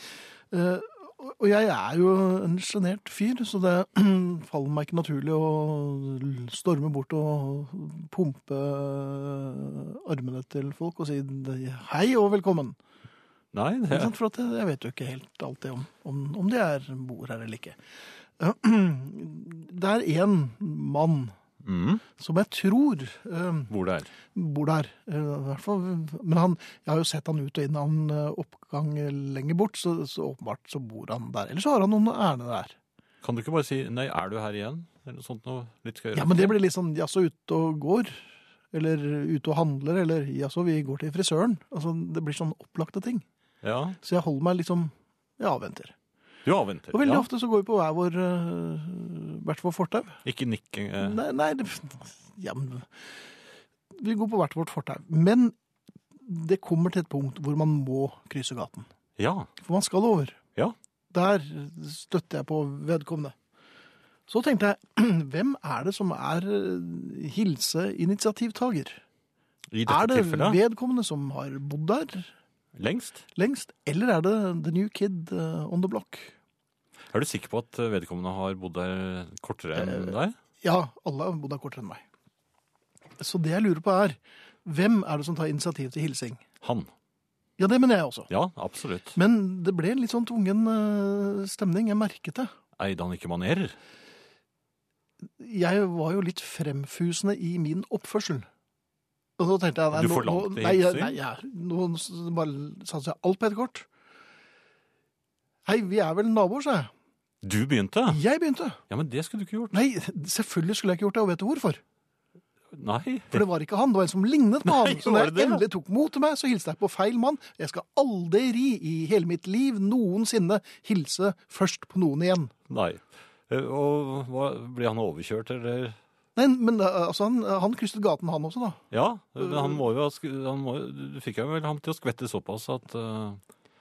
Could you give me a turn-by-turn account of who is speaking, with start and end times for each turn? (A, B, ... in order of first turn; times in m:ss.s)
0:00.5-0:12.8 A
0:13.5-0:14.1 B
0:13.9-0:17.8 A
0:18.4-0:21.4 A
0:21.6-0:22.0 B
0:22.2-0:23.7 A
0:23.7-0:24.1 B
0:24.3-0:32.7 A
0:33.2-0:36.6 B
0:36.1-0:43.2 A
0:43.6-0:44.0 B
0:44.0-0:45.9 A
0:46.4-0:47.3 B
0:46.9-0:50.2 A
0:50.2-0:51.2 B
0:51.0-0:52.9 A
0:53.9-0:55.6 A
0:56.2-0:58.9 A
0:59.2-0:59.5 B
0:59.6-1:00.4 A
1:01.1-1:03.4 A
1:04.3-1:09.0 A
1:09.7-1:10.6 B
1:09.9-1:12.3 A
1:12.8-1:13.2 B
1:13.4-1:16.3 A
1:17.1-1:20.4 B
1:19.7-1:22.0 A
1:23.2-1:26.4 A
1:26.6-1:26.9 B
1:27.6-1:28.3 A
1:28.3-1:29.2 B
1:29.1-1:32.5 A
1:32.8-1:33.8 B
1:35.4-1:38.5 A
1:39.4-1:43.9 A
1:39.9-1:41.2 B
1:45.6-1:46.9 A
1:47.4-1:48.2 B
1:48.1-1:48.8 A
1:48.9-1:49.8 B
1:49.7-1:51.8 A
1:52.7-1:53.4 B
1:53.3-2:02.5 A
1:54.6-1:55.6 B
2:02.7-2:06.0 B
2:06.4-2:08.8 A
2:08.9-2:13.4 B
2:09.4-2:09.8 A